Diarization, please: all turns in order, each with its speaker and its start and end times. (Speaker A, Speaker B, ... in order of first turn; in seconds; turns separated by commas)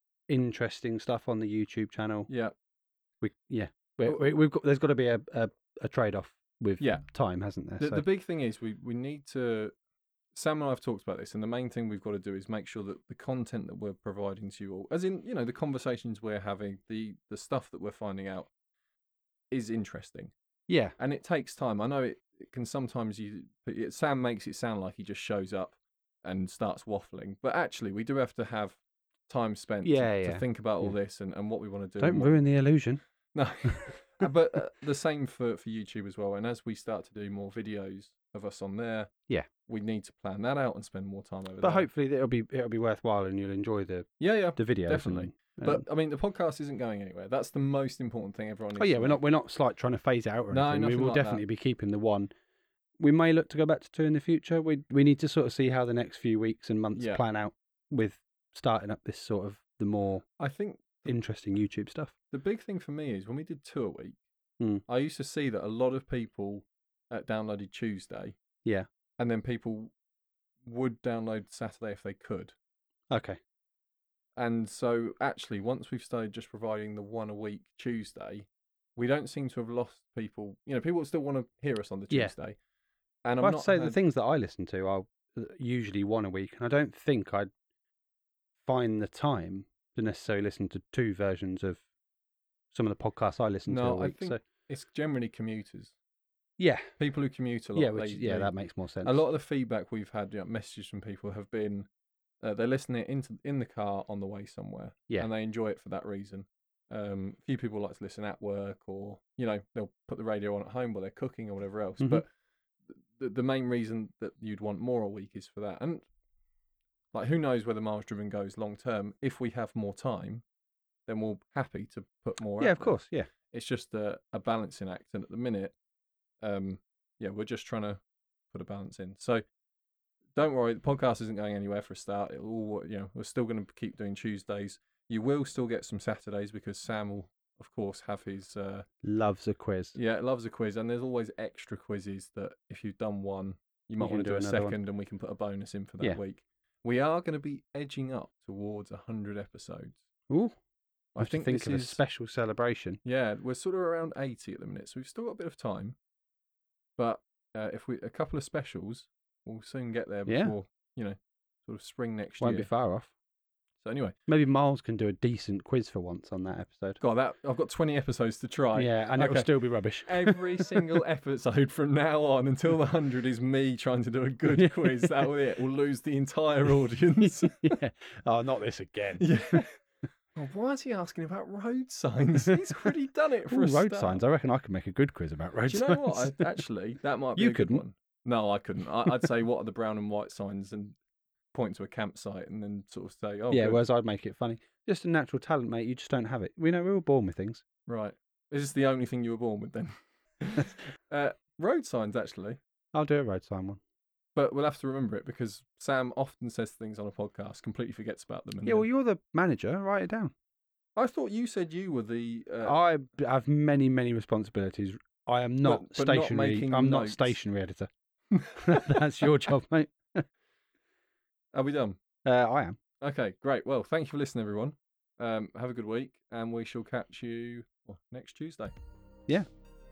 Speaker A: 0.3-2.3, Speaker B: 2.3-2.5, Speaker A: 3.2-8.0, Speaker B: 6.8-7.1, Speaker B: 7.8-9.7, Speaker B: 10.3-18.5, Speaker B: 19.5-20.3, Speaker A: 20.7-20.9, Speaker B: 21.0-32.4, Speaker A: 29.8-30.9, Speaker A: 32.0-33.0, Speaker B: 33.3-39.1, Speaker A: 33.6-34.3, Speaker B: 39.6-41.9, Speaker A: 41.6-45.8, Speaker B: 44.2-49.2, Speaker A: 48.8-52.3, Speaker B: 50.5-51.4, Speaker A: 53.0-60.3, Speaker B: 57.0-57.2, Speaker B: 60.4-61.1, Speaker A: 61.1-62.1, Speaker B: 62.3-64.2, Speaker B: 64.9-68.4, Speaker B: 69.2-69.9, Speaker B: 70.7-72.5, Speaker A: 73.1-73.4, Speaker B: 74.4-82.6, Speaker B: 83.2-84.0, Speaker A: 83.4-87.5, Speaker A: 88.6-91.8, Speaker A: 92.7-94.4, Speaker B: 93.7-95.9, Speaker A: 96.6-96.9, Speaker B: 97.0-98.5, Speaker A: 97.8-99.2, Speaker B: 99.0-101.9, Speaker B: 102.4-112.3, Speaker B: 112.9-116.0, Speaker B: 117.1-120.4, Speaker B: 121.1-125.8, Speaker A: 122.6-123.3, Speaker B: 126.4-129.4, Speaker B: 130.3-138.9, Speaker A: 139.0-140.0, Speaker B: 139.9-150.0, Speaker A: 144.0-144.8, Speaker A: 150.3-150.6, Speaker B: 151.2-152.0, Speaker A: 151.2-153.0, Speaker B: 153.0-156.0, Speaker B: 157.0-162.7, Speaker A: 160.3-160.6, Speaker A: 162.4-163.1, Speaker B: 163.8-164.2, Speaker A: 164.3-167.0, Speaker B: 167.0-169.5, Speaker A: 168.8-170.8, Speaker B: 170.0-177.8, Speaker A: 174.5-175.3, Speaker A: 177.2-179.6, Speaker B: 179.2-179.8, Speaker B: 180.3-184.2, Speaker A: 183.5-186.5, Speaker B: 185.7-191.0, Speaker A: 187.4-187.8, Speaker B: 191.5-193.8, Speaker A: 193.5-197.6, Speaker B: 197.9-202.6, Speaker A: 202.9-203.8, Speaker B: 204.4-208.9, Speaker A: 208.7-210.3, Speaker B: 211.0-212.8, Speaker A: 212.7-217.9, Speaker B: 215.6-217.4, Speaker B: 218.3-219.0, Speaker A: 218.6-220.3, Speaker B: 221.5-222.0, Speaker A: 222.2-222.8, Speaker B: 223.0-228.8